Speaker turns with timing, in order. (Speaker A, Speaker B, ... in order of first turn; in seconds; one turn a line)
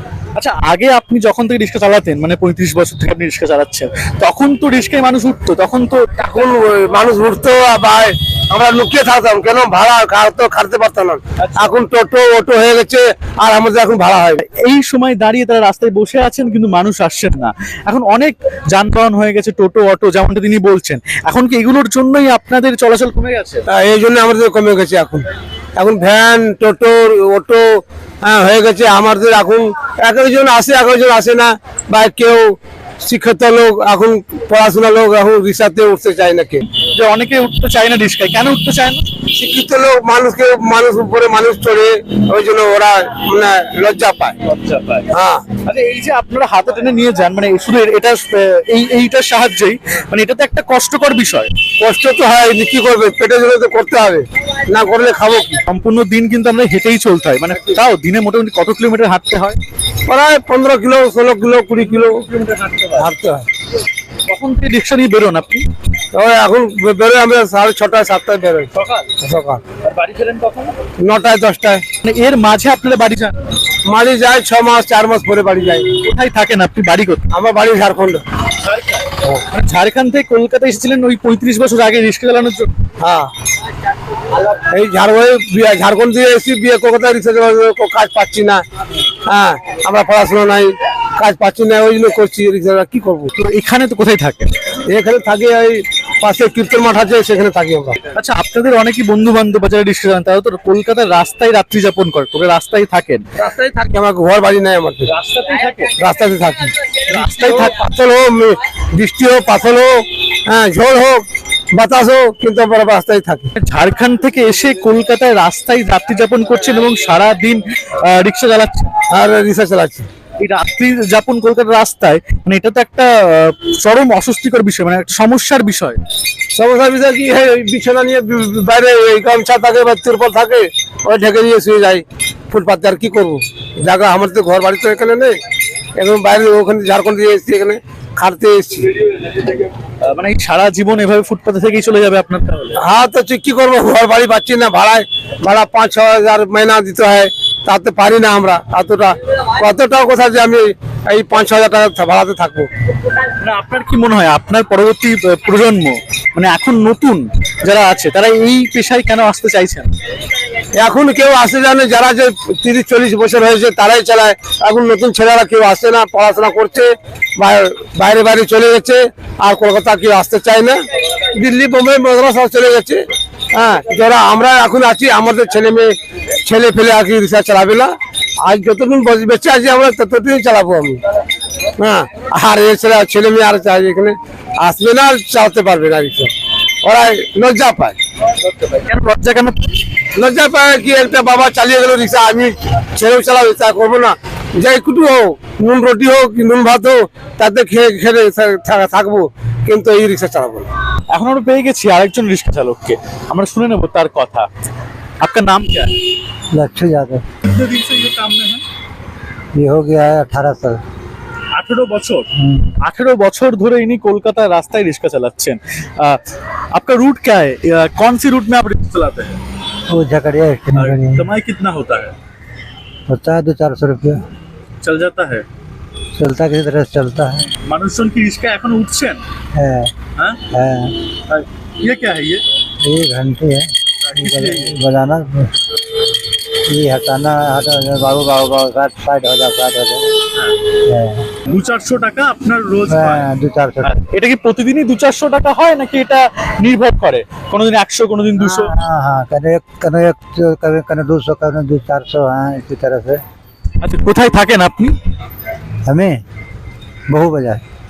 Speaker A: 0.3-6.0
Speaker B: 6.2-14.4
Speaker A: 11.4-11.8
Speaker A: 14.4-23.6
Speaker B: 23.7-25.2
Speaker B: 25.8-36.6
Speaker A: 36.7-39.0
Speaker B: 39.3-44.4
Speaker A: 44.5-45.1
Speaker B: 45.1-45.4
Speaker A: 45.6-51.5
Speaker B: 51.8-55.6
Speaker A: 55.6-59.6
Speaker B: 60.1-62.2
Speaker A: 62.0-63.0
Speaker B: 62.9-63.4
Speaker A: 64.3-65.6
Speaker B: 66.1-68.7
Speaker A: 68.7-69.1
Speaker B: 69.2-69.6
Speaker A: 69.8-70.8
Speaker B: 71.0-71.8
Speaker A: 72.0-73.3
Speaker B: 73.8-75.9
Speaker A: 76.0-77.2
Speaker B: 77.3-78.2
Speaker A: 78.6-82.7
Speaker B: 83.0-83.3
Speaker B: 84.6-88.6
Speaker B: 89.3-93.3
Speaker A: 93.3-94.5
Speaker B: 94.9-98.0
Speaker A: 98.2-103.2
Speaker B: 103.4-105.1
Speaker A: 105.1-105.9
Speaker B: 106.0-113.5
Speaker A: 107.1-107.7
Speaker A: 113.6-118.9
Speaker B: 119.1-120.1
Speaker A: 120.4-126.0
Speaker B: 126.5-135.4
Speaker B: 136.0-139.6
Speaker A: 140.0-142.8
Speaker B: 142.8-152.7
Speaker A: 153.4-159.9
Speaker B: 160.7-170.8
Speaker B: 171.3-173.0
Speaker B: 173.5-177.9
Speaker B: 178.4-181.0
Speaker B: 181.8-186.3
Speaker B: 186.8-188.0
Speaker A: 188.6-189.7
Speaker B: 190.2-200.7
Speaker A: 201.1-204.5
Speaker A: 205.2-205.9
Speaker C: 206.5-207.2
Speaker A: 207.4-208.6
Speaker C: 209.6-210.8
Speaker A: 211.6-212.2
Speaker A: 212.8-216.2
Speaker A: 216.7-219.4
Speaker C: 219.9-221.3
Speaker A: 220.7-222.1
Speaker C: 223.1-224.2
Speaker A: 224.8-225.4
Speaker C: 226.2-227.4
Speaker A: 227.7-229.2
Speaker C: 229.6-229.9
Speaker C: 230.5-231.0
Speaker A: 231.3-232.4
Speaker C: 232.8-235.5
Speaker A: 234.0-234.8
Speaker C: 236.7-240.1
Speaker C: 240.8-241.2
Speaker A: 241.5-243.3
Speaker C: 242.9-244.0
Speaker A: 243.8-248.7
Speaker C: 248.4-253.2
Speaker A: 253.8-254.9
Speaker C: 255.9-256.2
Speaker C: 257.1-257.6